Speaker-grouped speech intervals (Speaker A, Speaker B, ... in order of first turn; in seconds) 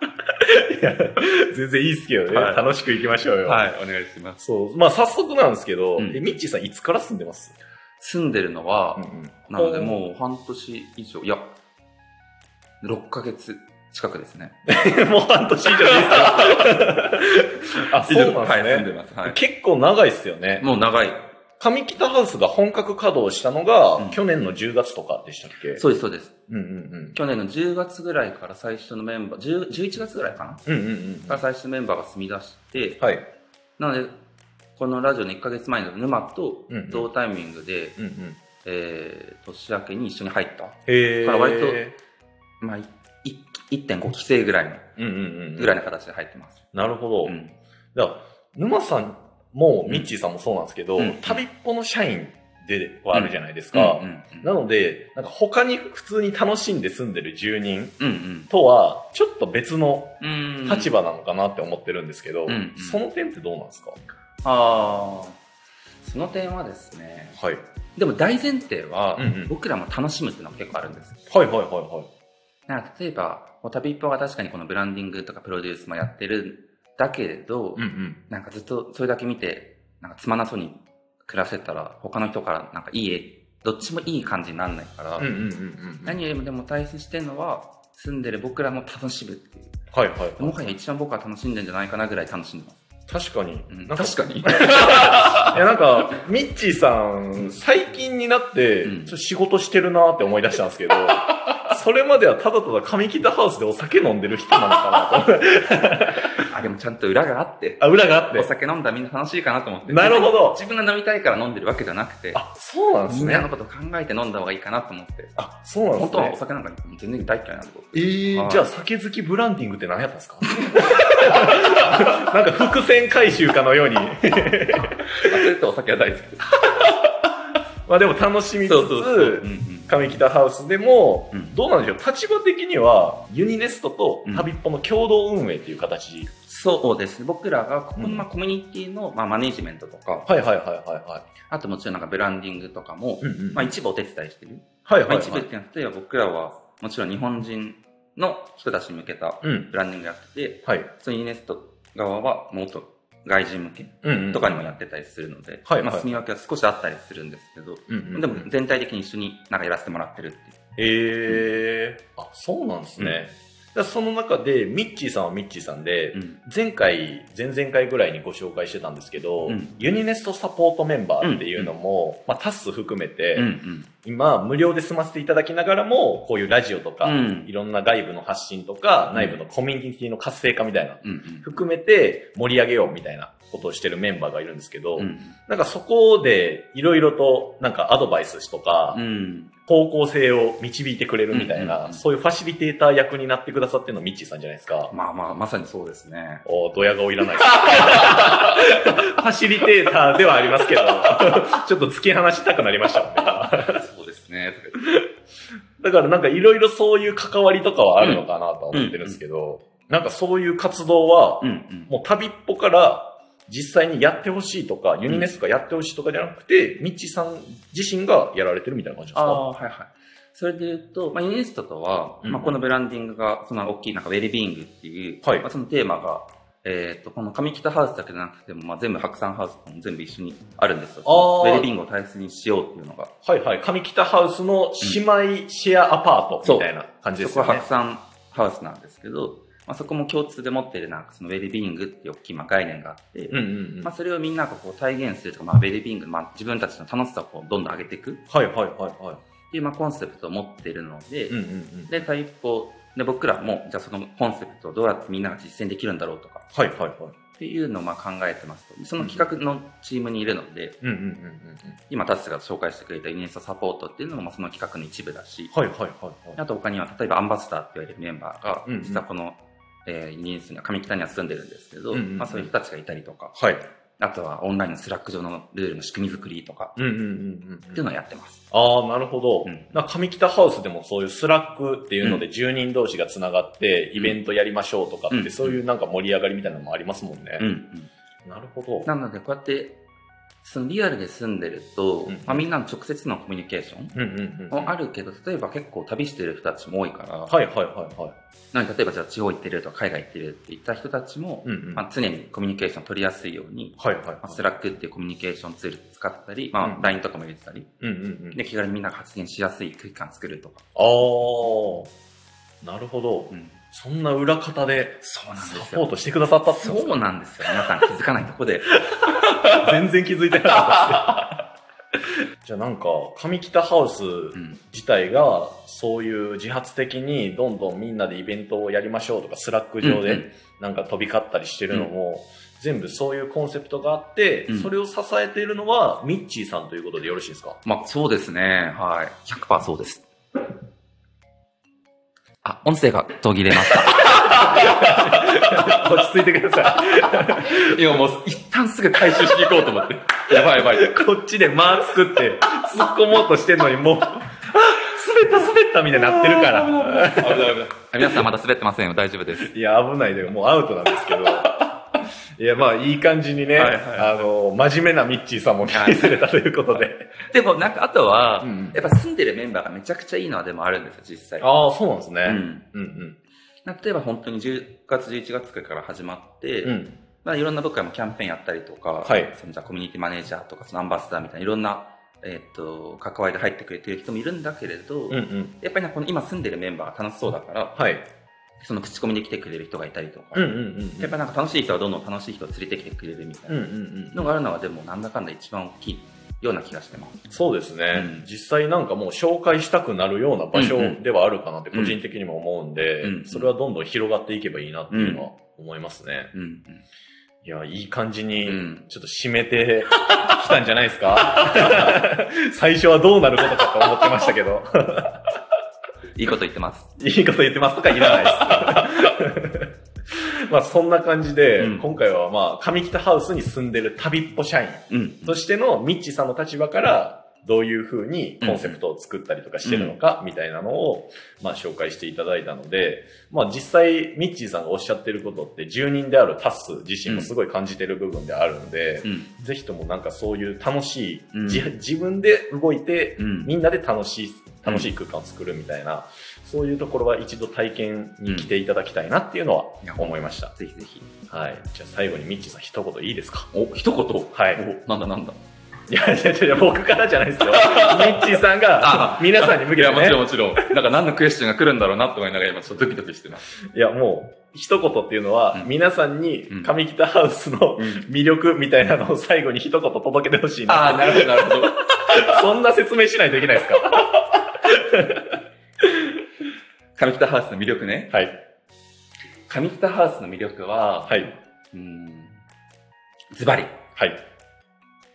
Speaker A: 0.3-3.7, 4.4-7.5, 8.9-10.0, 14.7-20.7, 21.6-25.8, 26.5-27.2, 30.6-31.4, 33.0-33.2, 36.7-37.1, 38.0-38.4, 40.9-42.0, 45.0-45.8, 46.7-47.4, 47.9-64.0, 67.3-67.6, 69.2-69.5, 71.3-72.1, 77.8-78.2, 85.2-86.2, 89.9-90.8, 93.1-106.4, 107.8-108.5, 109.8-110.6, 112.3-113.5, 115.4-116.4, 117.9-125.3, 127.8-136.3, 138.0-138.2, 140.2-141.3, 143.2-143.7, 144.8-145.5, 149.4-149.7, 154.0-154.6, 155.7-156.1, 157.9-158.5, 160.8-173.5, 174.0-189.0, 189.7-194.9, 196.4-203.8, 205.8-219.4, 222.2-222.6, 225.2-225.5, 231.0-231.7, 233.2-237.7, 243.3-243.9, 248.3-249.2, 251.3-252.0, 256.5-257.1, 259.0-259.3, 260.8-261.8, 265.5-266.4, 268.7-269.0, 271.9-272.5, 273.4-273.6, 276.8-277.8, 278.5-287.5, 288.2-288.9, 292.1-292.4, 293.9-294.8, 297.3-298.1, 301.4-301.8, 303.8-304.5, 306.6-306.9, 307.8-308.4, 310.7-311.9, 312.6-317.6, 318.7-321.4, 322.4-337.6, 343.8-347.7, 349.0-349.7, 350.3-358.2, 359.4-361.7, 362.4-367.1, 368.4-368.8, 371.4-373.2, 376.6-377.0, 379.0-379.3, 385.1-385.5, 387.7-388.0, 390.3-391.2, 393.5-394.3, 397.3-406.3, 407.4-415.2, 417.0-450.5, 451.3-453.5, 454.3-454.6, 455.9-460.7, 463.7-476.2, 478.1-478.4, 481.1-481.3
Speaker B: 2.3-2.7, 3.4-4.4, 6.0-6.3, 8.0-11.5, 12.8-14.5, 15.7-16.8, 18.0-19.4, 20.6-21.3, 25.7-26.3, 27.1-30.6, 31.3-33.0, 33.8-34.2, 34.8-38.0, 38.6-41.8, 42.6-44.9, 45.5-46.6, 47.2-47.5, 51.0-51.5, 53.1-54.5, 58.0-58.5, 60.2-60.9, 62.5-63.0, 64.4-65.4, 66.0-67.4, 67.9-71.2, 72.7-85.3, 86.0-89.8, 90.4-92.8, 93.7-95.6, 98.8-99.1, 106.3-112.4, 113.0-115.3, 115.9-118.7, 120.6-121.0, 125.1-126.5, 128.7-130.0, 136.5-140.3, 141.5-160.6, 166.1-166.4, 169.4-169.8, 171.2-171.7, 173.3-173.9, 177.0-177.5, 179.1-179.4, 181.0-181.5, 185.0-185.4, 188.9-189.5, 191.3-192.0, 194.9-196.4, 197.4-198.5, 203.2-205.0, 208.0-209.2, 211.4-211.9, 219.1-233.1, 236.4-248.2, 249.5-256.4, 257.4-260.8, 261.9-265.5, 266.4-273.4, 274.0-276.8, 277.7-278.4, 279.4-279.7, 282.0-282.2, 285.1-285.6, 287.4-287.9, 288.8-289.8, 290.4-293.9, 294.5-297.4, 298.5-307.7, 308.3-310.6, 313.3-313.6, 315.0-315.9, 316.5-319.7, 320.5-321.2, 324.3-324.6, 329.8-330.3, 334.5-334.7, 337.6-340.1, 342.4-345.8, 347.3-351.1, 356.0-359.5, 363.5-364.3, 365.6-371.5, 372.2-372.6, 373.6-387.8, 388.6-397.2, 397.9-398.2, 400.5-401.0, 401.7-402.0, 403.0-403.5, 404.9-405.3, 406.3-406.8, 408.4-408.9, 416.1-416.9, 417.9-418.8, 421.6-421.9, 424.9-425.4, 428.4-428.8, 429.6-430.0, 437.0-437.3, 439.0-439.3, 441.3-441.7, 443.2-443.5, 448.3-448.5, 449.8-451.1, 453.5-455.4, 457.5-463.5, 467.8-468.0, 470.6-472.2, 476.9-478.2, 479.5-482.4, 483.3-483.8